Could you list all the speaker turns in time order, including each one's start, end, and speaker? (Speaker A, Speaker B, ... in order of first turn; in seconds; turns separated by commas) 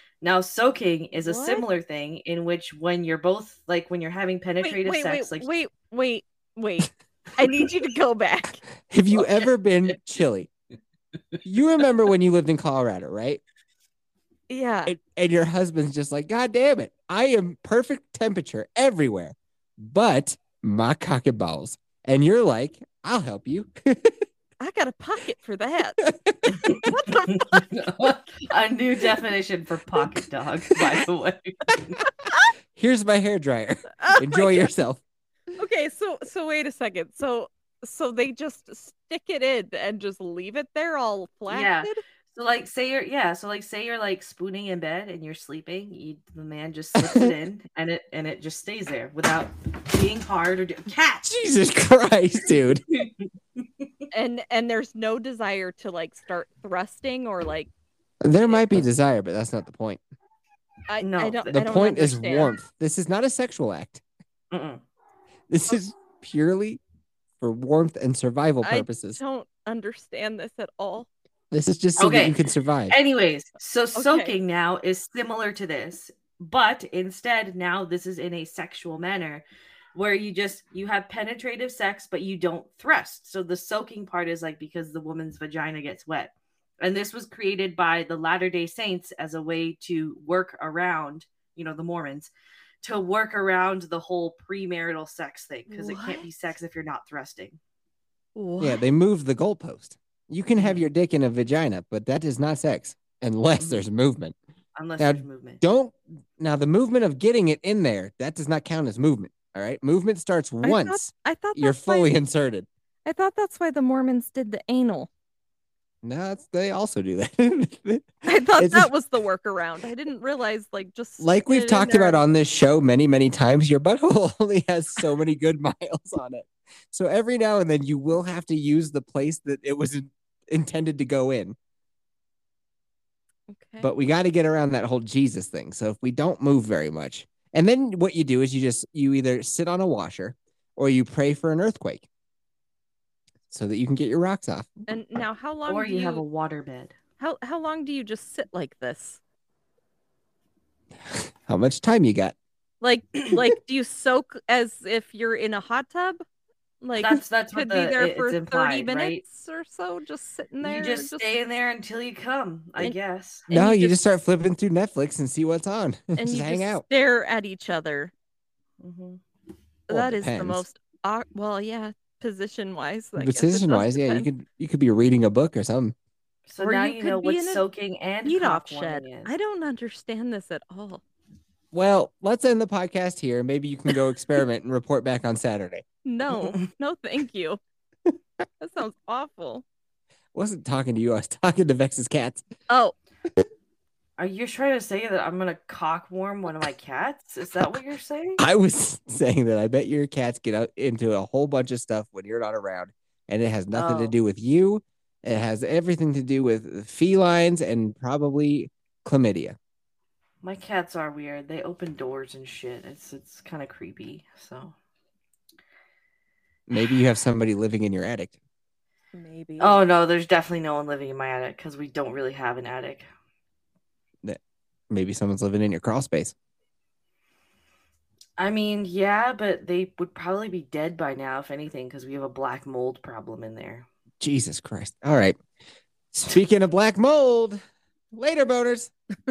Speaker A: 0.2-5.5, Speaker B: 1.1-1.6, Speaker B: 4.6-8.6, Speaker C: 8.9-10.5, Speaker A: 9.1-9.5, Speaker C: 11.4-13.4, Speaker B: 14.5-14.9, Speaker C: 14.9-24.1, Speaker B: 24.6-26.1, Speaker C: 26.0-26.7, Speaker B: 26.6-27.6, Speaker A: 27.3-32.0, Speaker C: 32.7-35.0, Speaker B: 34.0-34.7, Speaker B: 35.6-42.0, Speaker A: 41.5-51.3, Speaker C: 47.0-47.3, Speaker C: 51.2-52.8, Speaker B: 54.1-57.7, Speaker C: 58.2-60.0, Speaker B: 58.4-58.8, Speaker B: 60.9-62.5, Speaker A: 61.0-61.5, Speaker C: 61.5-64.0, Speaker A: 64.5-64.8, Speaker C: 65.5-66.8, Speaker C: 67.4-69.2, Speaker B: 68.6-71.1, Speaker C: 71.5-72.9, Speaker A: 72.0-72.4, Speaker A: 72.9-79.4, Speaker B: 73.9-74.3, Speaker A: 79.9-92.3, Speaker A: 92.8-97.6, Speaker B: 95.7-96.2, Speaker B: 98.3-98.8, Speaker C: 98.6-104.3, Speaker A: 100.6-100.8, Speaker A: 103.6-103.8, Speaker A: 104.8-105.6, Speaker C: 105.0-112.7, Speaker B: 110.6-112.1, Speaker B: 113.0-115.1, Speaker C: 116.0-118.9, Speaker B: 118.2-122.2, Speaker C: 121.2-131.6, Speaker B: 133.5-133.9, Speaker C: 133.8-142.1, Speaker C: 143.5-144.7, Speaker B: 144.9-146.2, Speaker A: 145.7-146.9, Speaker B: 147.2-149.2, Speaker C: 151.0-152.3, Speaker B: 152.8-156.2, Speaker B: 156.8-161.3, Speaker A: 157.0-159.2, Speaker A: 160.6-163.5, Speaker B: 163.5-163.9, Speaker C: 163.5-166.8, Speaker B: 166.2-168.1, Speaker A: 168.8-169.2, Speaker C: 169.9-170.6, Speaker B: 169.9-174.3, Speaker C: 173.2-175.9, Speaker A: 176.5-179.3, Speaker B: 176.6-177.6, Speaker B: 178.2-181.0, Speaker C: 181.7-185.8, Speaker B: 186.0-187.6, Speaker B: 188.6-189.6, Speaker C: 190.3-192.4, Speaker B: 192.7-192.9, Speaker A: 194.2-198.4, Speaker C: 198.4-209.6, Speaker A: 203.7-204.2, Speaker A: 210.4-214.8, Speaker C: 216.7-218.3, Speaker B: 219.1-219.8, Speaker A: 219.6-223.1, Speaker C: 224.9-226.3, Speaker A: 228.4-233.9, Speaker C: 234.2-235.4, Speaker C: 236.1-237.6, Speaker C: 238.1-238.9